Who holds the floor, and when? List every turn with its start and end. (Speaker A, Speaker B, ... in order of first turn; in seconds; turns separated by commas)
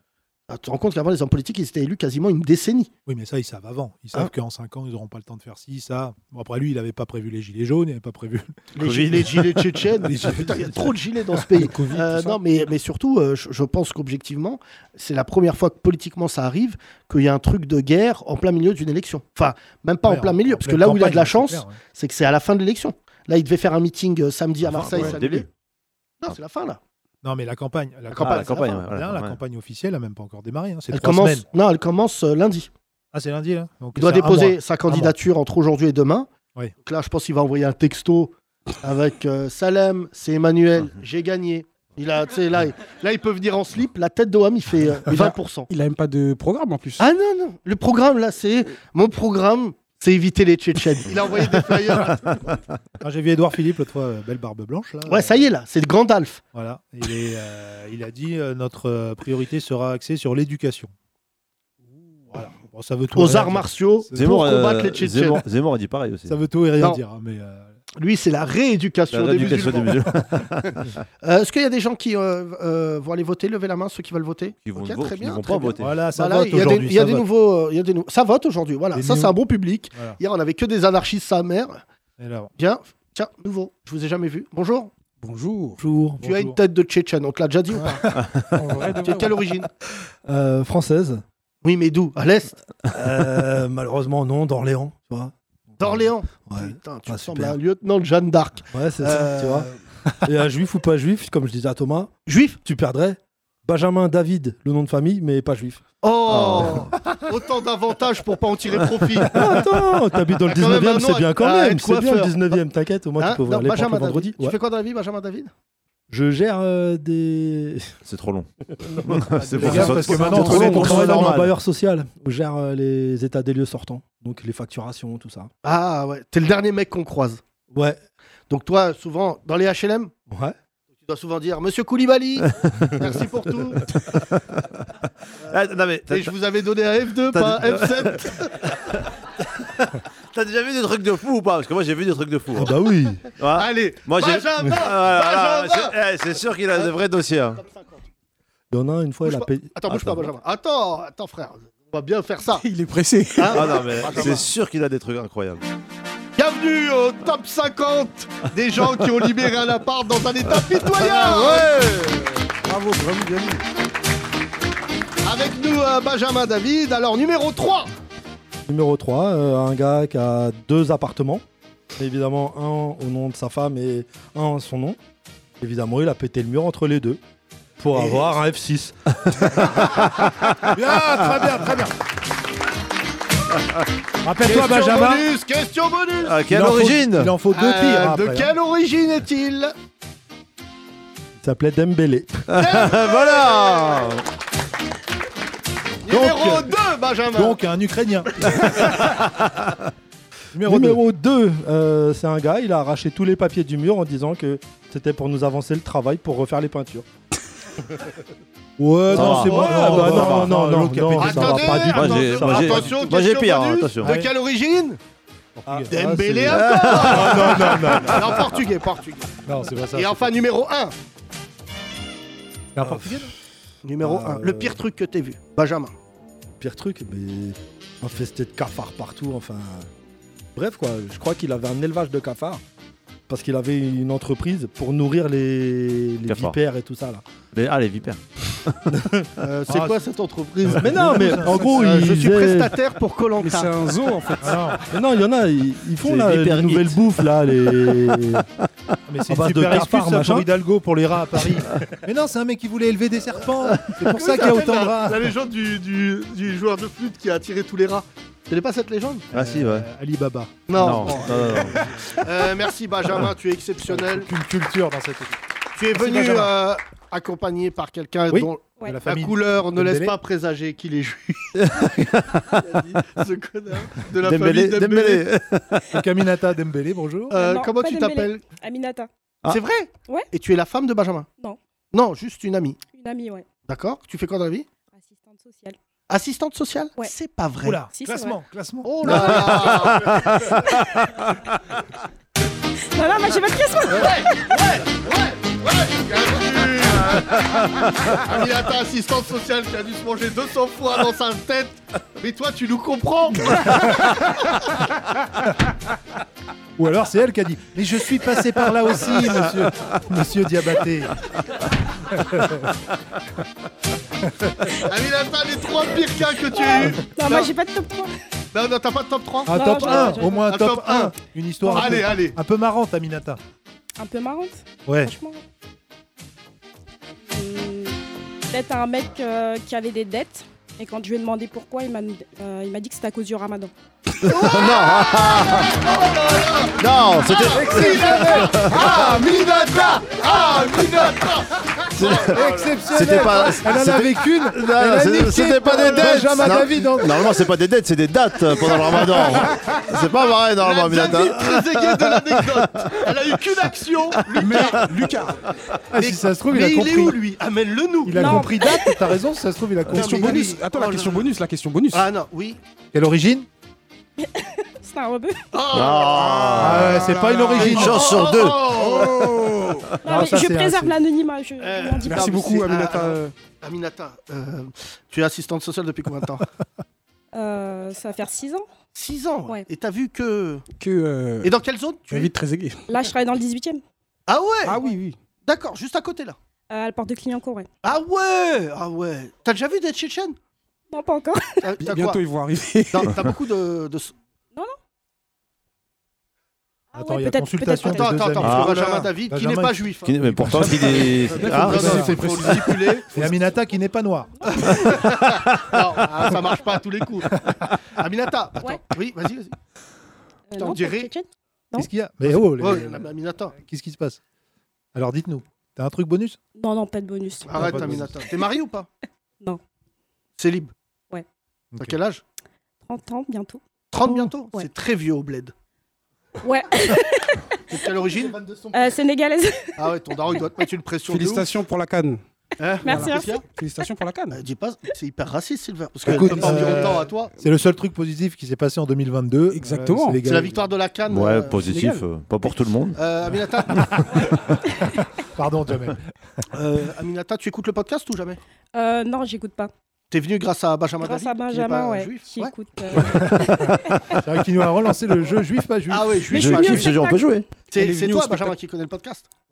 Speaker A: 0.5-2.9, Speaker B: 3.1-8.7, Speaker A: 8.7-25.5, Speaker C: 8.8-9.8, Speaker B: 10.0-10.9, Speaker B: 11.4-12.4, Speaker B: 20.1-21.8, Speaker C: 24.6-25.5, Speaker A: 26.2-26.8, Speaker B: 27.2-31.4, Speaker A: 28.1-28.8, Speaker C: 28.2-29.4, Speaker A: 30.9-32.7, Speaker B: 33.1-35.1, Speaker A: 34.0-36.3, Speaker A: 36.8-45.7, Speaker D: 45.1-47.0, Speaker A: 47.0-52.5, Speaker B: 53.0-55.4, Speaker A: 55.1-56.4, Speaker B: 56.5-60.9, Speaker B: 62.3-64.4, Speaker A: 63.1-65.4, Speaker C: 64.1-66.4, Speaker B: 66.3-67.8, Speaker A: 68.0-70.1, Speaker C: 69.1-70.9, Speaker A: 71.2-81.8, Speaker C: 74.6-75.9, Speaker B: 75.8-77.2, Speaker B: 78.9-79.3, Speaker B: 79.9-80.2, Speaker B: 82.2-82.5, Speaker A: 82.6-84.9, Speaker D: 85.2-85.8, Speaker E: 85.8-86.2, Speaker B: 86.2-86.6, Speaker A: 86.2-88.2, Speaker C: 88.2-88.4, Speaker D: 88.5-89.4, Speaker A: 89.0-89.7, Speaker E: 90.2-91.2, Speaker A: 91.6-92.6, Speaker E: 92.9-97.6, Speaker A: 95.8-99.7, Speaker E: 98.7-99.7, Speaker E: 100.2-102.1, Speaker A: 102.3-102.6, Speaker E: 102.6-105.8, Speaker A: 106.0-109.4, Speaker C: 106.3-107.0, Speaker E: 109.3-114.6, Speaker A: 110.5-112.6, Speaker A: 113.2-115.5, Speaker E: 116.1-117.9, Speaker C: 118.0-121.5, Speaker E: 119.0-125.5, Speaker B: 119.6-121.4, Speaker A: 125.6-127.4, Speaker E: 127.7-128.0, Speaker A: 128.5-130.1, Speaker A: 131.1-133.9, Speaker C: 134.1-134.6, Speaker A: 135.4-138.6, Speaker C: 135.5-136.3, Speaker C: 137.3-138.9, Speaker C: 139.8-147.6, Speaker E: 142.6-143.3, Speaker A: 143.5-146.0, Speaker A: 147.6-148.0, Speaker E: 148.7-149.8, Speaker A: 149.2-152.7, Speaker D: 152.6-154.1, Speaker A: 153.4-154.5, Speaker C: 153.5-155.6, Speaker A: 156.4-161.7, Speaker C: 160.9-162.3, Speaker D: 162.6-163.6, Speaker A: 165.2-167.9, Speaker E: 168.7-171.4, Speaker E: 172.0-175.0, Speaker E: 175.6-177.2, Speaker E: 177.8-178.9, Speaker A: 177.9-178.3, Speaker C: 179.6-180.5, Speaker B: 180.6-181.9, Speaker B: 184.2-185.3, Speaker A: 184.4-186.4, Speaker C: 186.2-187.3, Speaker B: 186.5-188.5, Speaker A: 187.5-189.7, Speaker E: 191.4-192.4, Speaker C: 192.5-194.2, Speaker A: 192.6-194.1, Speaker A: 196.1-197.6, Speaker B: 196.1-196.7, Speaker B: 197.3-198.7, Speaker C: 199.2-199.7, Speaker B: 200.5-201.0, Speaker E: 200.6-207.1, Speaker B: 208.8-211.9, Speaker C: 209.1-210.5, Speaker E: 209.1-212.7, Speaker A: 209.2-210.1, Speaker A: 211.2-215.0, Speaker C: 211.8-214.2, Speaker B: 212.6-212.9, Speaker B: 214.0-214.3, Speaker B: 215.6-215.9, Speaker E: 215.7-216.8, Speaker A: 215.9-219.4, Speaker C: 216.5-218.5, Speaker B: 219.4-220.3, Speaker A: 219.9-220.9, Speaker B: 222.7-223.3, Speaker A: 223.8-225.9, Speaker E: 224.0-224.8, Speaker E: 226.6-229.9, Speaker E: 230.6-232.6, Speaker E: 233.3-237.2, Speaker C: 236.3-236.6, Speaker C: 237.5-238.9, Speaker E: 238.9-239.2, Speaker A: 239.4-243.7, Speaker B: 239.7-240.0, Speaker B: 240.6-241.8, Speaker E: 240.8-242.7, Speaker D: 243.4-244.8, Speaker B: 244.4-244.8, Speaker E: 244.9-248.4, Speaker C: 246.0-247.1, Speaker B: 249.1-255.3, Speaker E: 249.3-250.5, Speaker A: 253.9-259.2, Speaker B: 259.3-262.2, Speaker C: 259.3-259.9, Speaker A: 260.7-264.3, Speaker C: 260.7-261.9, Speaker B: 263.9-265.4, Speaker A: 265.8-271.8, Speaker B: 265.9-266.5, Speaker B: 268.3-270.2, Speaker C: 271.6-272.4, Speaker A: 272.5-275.2, Speaker C: 274.2-276.0, Speaker B: 275.9-277.4, Speaker A: 277.3-278.4, Speaker F: 277.3-279.1, Speaker A: 279.5-281.3, Speaker A: 281.9-282.8, Speaker F: 282.9-283.4, Speaker A: 283.7-284.7, Speaker F: 284.9-285.8, Speaker A: 286.1-287.8, Speaker B: 287.6-289.9, Speaker F: 287.9-288.4, Speaker A: 288.8-290.3, Speaker F: 289.0-289.4, Speaker C: 289.6-290.5, Speaker F: 292.9-294.2, Speaker A: 293.9-304.5, Speaker B: 303.7-304.1, Speaker B: 306.8-311.1, Speaker B: 312.1-312.7, Speaker B: 314.3-314.7, Speaker A: 314.8-317.5, Speaker F: 316.5-318.1, Speaker A: 318.5-321.1, Speaker B: 319.4-323.4, Speaker F: 319.5-320.5, Speaker A: 321.7-322.4, Speaker F: 321.7-322.0, Speaker F: 324.0-325.4, Speaker B: 324.9-325.1, Speaker F: 327.3-327.9, Speaker F: 328.5-333.7, Speaker A: 334.2-342.4, Speaker C: 334.2-335.8, Speaker C: 336.8-339.2, Speaker B: 337.4-339.2, Speaker C: 341.9-353.1, Speaker B: 342.1-347.4, Speaker A: 345.8-346.4, Speaker A: 350.6-354.9, Speaker D: 354.4-355.4, Speaker B: 355.9-357.2, Speaker A: 355.9-358.5, Speaker B: 358.1-360.6, Speaker F: 358.1-359.1, Speaker A: 359.9-361.3, Speaker D: 359.9-362.1, Speaker A: 361.9-362.6, Speaker B: 362.9-363.5, Speaker F: 364.2-365.4, Speaker A: 365.5-369.4, Speaker C: 365.7-368.8, Speaker B: 366.6-368.2, Speaker D: 367.2-367.6, Speaker D: 368.8-369.9, Speaker F: 370.0-372.4, Speaker B: 370.1-370.9, Speaker A: 371.6-376.4, Speaker D: 372.1-373.3, Speaker F: 377.4-378.6, Speaker A: 378.9-380.6, Speaker D: 380.8-381.5, Speaker A: 381.4-382.3, Speaker D: 382.1-382.9, Speaker F: 382.9-383.8, Speaker A: 384.3-384.8, Speaker D: 384.6-385.2, Speaker A: 385.4-386.4, Speaker F: 386.7-387.7, Speaker A: 387.8-390.4, Speaker F: 390.9-391.6, Speaker A: 391.6-392.2, Speaker D: 391.8-393.2, Speaker A: 392.9-394.1, Speaker F: 396.9-398.3, Speaker B: 396.9-402.2, Speaker A: 397.9-403.2, Speaker C: 398.4-399.0, Speaker C: 400.1-402.1, Speaker D: 401.4-403.0, Speaker B: 403.1-404.4, Speaker F: 404.4-405.1, Speaker A: 404.5-409.5, Speaker F: 410.5-411.9, Speaker A: 410.6-411.1, Speaker B: 411.7-414.2, Speaker A: 412.6-413.5, Speaker B: 414.9-416.4, Speaker F: 416.6-417.9, Speaker A: 417.4-418.9, Speaker B: 417.5-418.1, Speaker A: 420.4-420.7, Speaker A: 421.8-422.2, Speaker F: 422.9-424.7, Speaker A: 423.9-425.5, Speaker F: 426.4-427.6, Speaker A: 427.7-428.4, Speaker F: 428.7-429.7, Speaker A: 429.8-431.5, Speaker D: 431.1-432.2, Speaker A: 432.6-433.4, Speaker F: 432.8-433.4, Speaker D: 432.9-434.4, Speaker A: 434.3-437.3, Speaker B: 436.1-440.7, Speaker D: 436.2-437.0, Speaker D: 439.5-440.2, Speaker A: 440.2-441.6, Speaker C: 441.1-443.0, Speaker D: 441.7-442.0, Speaker A: 442.9-444.1, Speaker B: 445.0-446.0, Speaker A: 446.5-448.4, Speaker F: 448.7-449.7, Speaker A: 450.1-453.2, Speaker F: 451.0-454.2, Speaker B: 453.0-456.3, Speaker A: 455.9-457.0, Speaker F: 456.3-457.3, Speaker C: 456.3-457.5, Speaker A: 457.7-459.3, Speaker D: 457.7-458.5